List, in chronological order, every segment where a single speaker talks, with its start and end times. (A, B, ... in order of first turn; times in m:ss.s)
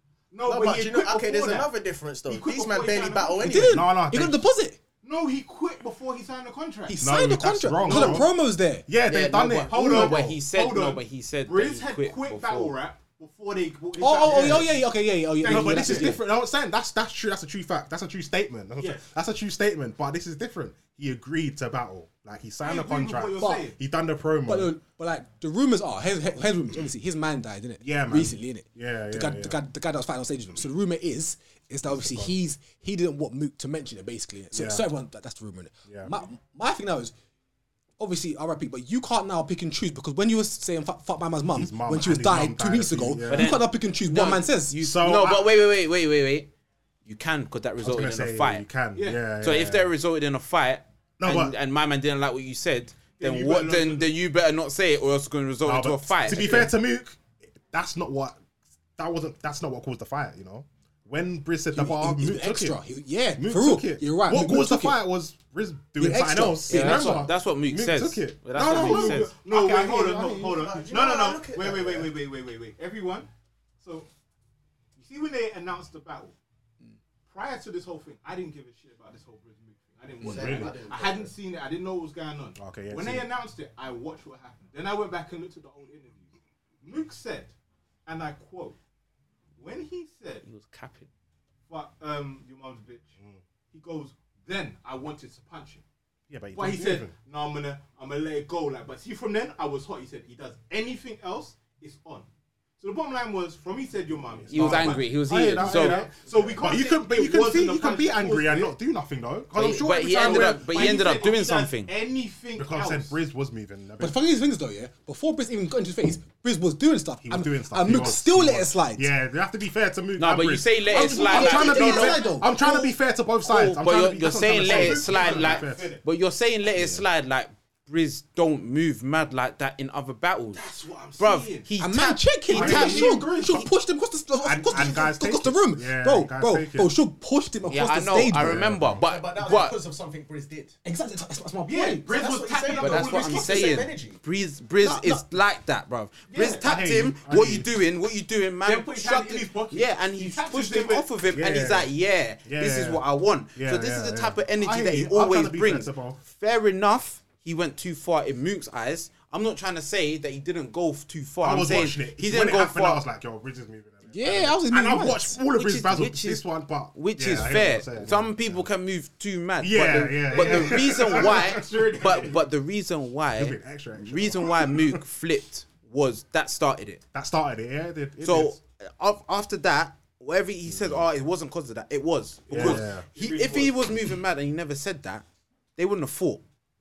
0:00.3-0:01.7 A
0:00.4-0:03.8 B
0:02.3-0:03.6 A
0:03.4-0:04.8 C
0:03.6-0:04.4 D
0:05.0-0:07.0 A
0:06.9-0:08.9 C
0:07.0-0:08.3 D
0:07.8-0:08.3 A
0:08.9-0:10.4 D
0:09.0-0:12.8 E
0:09.7-0:14.9 A
0:14.0-0:16.2 C
0:14.3-0:14.7 D
0:15.4-0:16.2 A
0:15.4-0:24.8 D
0:18.8-0:19.1 A
0:22.6-0:23.8 A
0:23.4-0:23.7 C
0:24.5-0:37.1 C
0:27.8-0:29.6 D
0:31.9-0:32.4 D
0:34.5-0:34.9 D
0:35.9-0:36.2 D
0:38.0-0:44.8 C
0:41.5-0:43.6 D
0:43.3-0:46.5 E
0:44.8-0:45.5 D
0:47.1-0:48.7 E
0:47.8-0:49.9 D
0:49.0-0:49.2 A
0:49.4-0:56.7 E
0:51.2-0:51.6 D
0:53.2-0:54.1 A
0:55.6-0:58.4 D
0:59.0-1:02.8 D
1:01.7-1:05.0 C
1:03.4-1:10.4 D
1:06.0-1:07.2 C
1:06.7-1:09.3 E
1:08.6-1:13.3 A
1:09.8-1:12.1 B
1:13.8-1:14.1 A
1:15.0-1:16.4 A
1:17.3-1:26.3 A
1:20.2-1:21.3 B
1:20.2-1:20.7 D
1:22.6-1:23.3 D
1:26.8-1:27.5 A
1:28.1-1:28.8 A
1:29.6-1:30.4 A
1:30.4-1:31.1 E
1:31.7-1:33.2 A
1:33.7-1:35.8 A
1:36.3-1:37.1 D
1:36.6-1:42.3 A
1:42.8-1:48.8 A
1:44.4-1:50.7 D
1:44.5-1:46.0 E
1:49.5-1:51.9 E
1:50.2-1:53.2 A
1:52.6-1:54.2 D
1:54.0-1:59.1 C
1:57.2-2:06.0 D
2:00.2-2:02.7 E
2:00.9-2:02.8 C
2:03.4-2:10.6 E
2:04.6-2:06.0 A
2:10.5-2:11.7 A
2:11.2-2:13.2 E
2:11.8-2:18.6 C
2:12.5-2:13.6 A
2:12.6-2:13.3 D
2:14.4-2:16.9 D
2:17.7-2:19.8 E
2:18.4-2:19.0 D
2:19.0-2:20.8 B
2:20.8-2:22.5 C
2:21.7-2:23.7 A
2:22.1-2:24.2 B
2:22.8-2:43.0 E
2:24.8-2:25.3 C
2:26.3-2:26.6 A
2:26.6-2:27.7 D
2:28.6-2:31.1 A
2:31.3-2:31.9 D
2:32.4-2:36.2 D
2:41.4-2:48.7 D
2:44.1-2:45.4 C
2:45.5-2:57.0 E
2:49.6-2:52.4 D
2:50.3-2:52.3 A
2:53.4-2:55.0 D
2:57.1-2:58.6 D
2:58.2-3:05.2 E
3:00.7-3:01.1 D
3:02.5-3:03.1 D
3:02.5-3:04.0 A
3:05.8-3:06.4 E